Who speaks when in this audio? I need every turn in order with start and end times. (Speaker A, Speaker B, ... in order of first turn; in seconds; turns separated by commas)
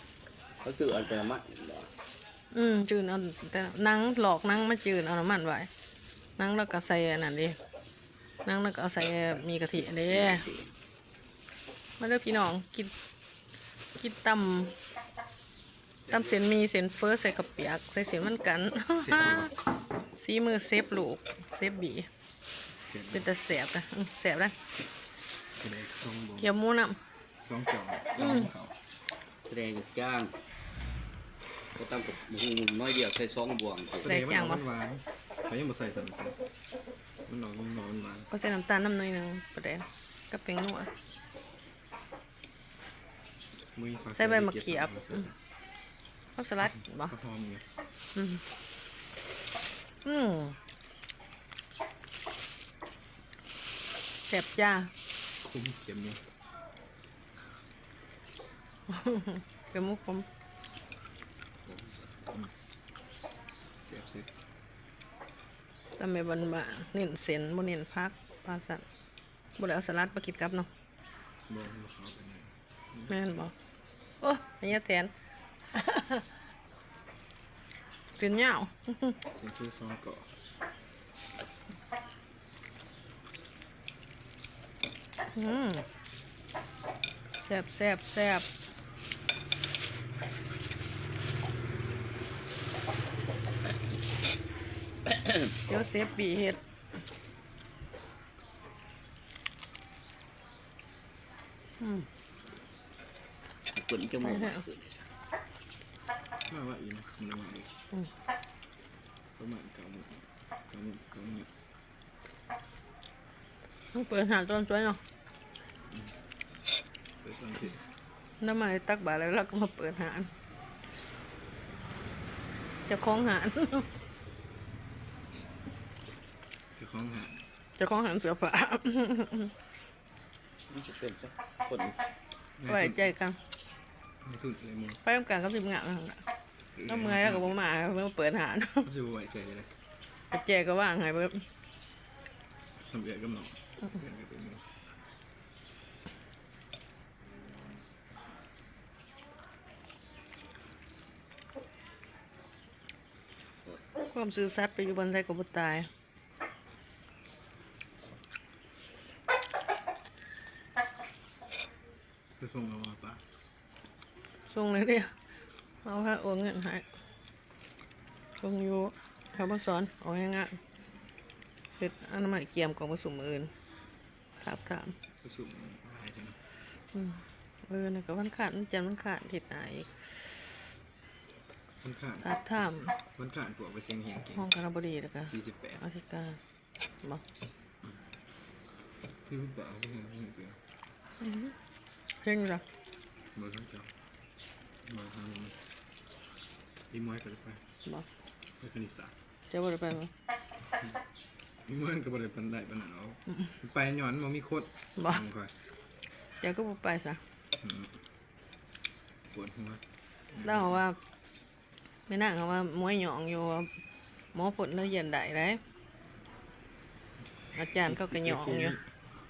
Speaker A: 0.6-1.9, Speaker B: 2.5-5.7, Speaker B: 6.4-7.6, Speaker B: 8.4-10.4, Speaker A: 10.1-10.7, Speaker B: 12.0-12.9, Speaker B: 14.0-14.8, Speaker B: 16.1-19.5, Speaker C: 19.0-19.5, Speaker B: 20.1-22.1, Speaker C: 22.8-23.3, Speaker B: 23.1-24.7, Speaker C: 25.6-26.5, Speaker B: 26.4-27.0, Speaker C: 27.4-28.8, Speaker B: 28.2-28.5, Speaker A: 29.4-30.4, Speaker A: 31.7-34.1, Speaker C: 34.0-36.4, Speaker B: 34.0-34.6, Speaker C: 37.2-38.3, Speaker B: 38.3-40.9, Speaker C: 43.7-45.4, Speaker B: 44.1-45.3, Speaker B: 46.4-47.1, Speaker C: 46.9-47.7, Speaker B: 48.1-48.4, Speaker B: 50.0-50.6, Speaker B: 54.3-54.9, Speaker C: 55.4-56.2, Speaker B: 58.9-60.3, Speaker A: 61.6-62.2, Speaker C: 63.8-64.3, Speaker B: 66.0-68.8, Speaker B: 69.6-70.7, Speaker C: 71.5-73.1, Speaker B: 73.1-73.5, Speaker B: 74.2-75.1, Speaker B: 75.7-76.3, Speaker B: 78.1-79.2, Speaker C: 79.2-80.3, Speaker B: 85.3-85.9, Speaker B: 87.4-88.5, Speaker A: 95.0-95.5, Speaker B: 95.6-96.6, Speaker B: 101.8-102.1, Speaker A: 103.7-105.1, Speaker B: 104.2-104.6, Speaker C: 106.4-107.8, Speaker C: 109.4-111.5, Speaker B: 113.9-115.0, Speaker C: 115.9-116.1, Speaker C: 117.2-117.8, Speaker B: 118.4-120.3, Speaker B: 122.9-123.9, Speaker C: 126.7-127.5, Speaker B: 127.8-129.5, Speaker A: 130.7-132.0, Speaker C: 132.6-133.1, Speaker B: 132.7-133.4, Speaker C: 134.2-135.0, Speaker B: 135.0-136.2, Speaker C: 136.7-137.6, Speaker B: 136.8-138.9, Speaker C: 138.8-139.7, Speaker B: 140.3-141.5, Speaker C: 142.8-144.6, Speaker B: 154.0-155.9, Speaker C: 162.4-163.2, Speaker B: 164.5-165.1, Speaker B: 165.8-166.9, Speaker B: 168.4-170.6, Speaker B: 171.8-173.5, Speaker B: 174.4-174.9, Speaker C: 175.2-176.5, Speaker B: 176.9-180.7, Speaker C: 181.8-184.4, Speaker B: 182.2-182.9, Speaker B: 184.3-186.4, Speaker C: 185.3-185.8, Speaker C: 189.2-190.6, Speaker B: 191.2-191.5, Speaker B: 192.2-192.6, Speaker C: 193.3-193.9, Speaker C: 194.8-195.6, Speaker C: 196.9-197.6, Speaker C: 198.6-199.1, Speaker B: 199.5-200.1, Speaker C: 201.6-205.5, Speaker B: 206.4-207.2, Speaker C: 207.6-208.0, Speaker C: 209.3-210.7, Speaker B: 210.4-211.0, Speaker B: 212.1-213.7, Speaker B: 214.3-215.6, Speaker C: 217.5-218.8, Speaker B: 217.5-218.8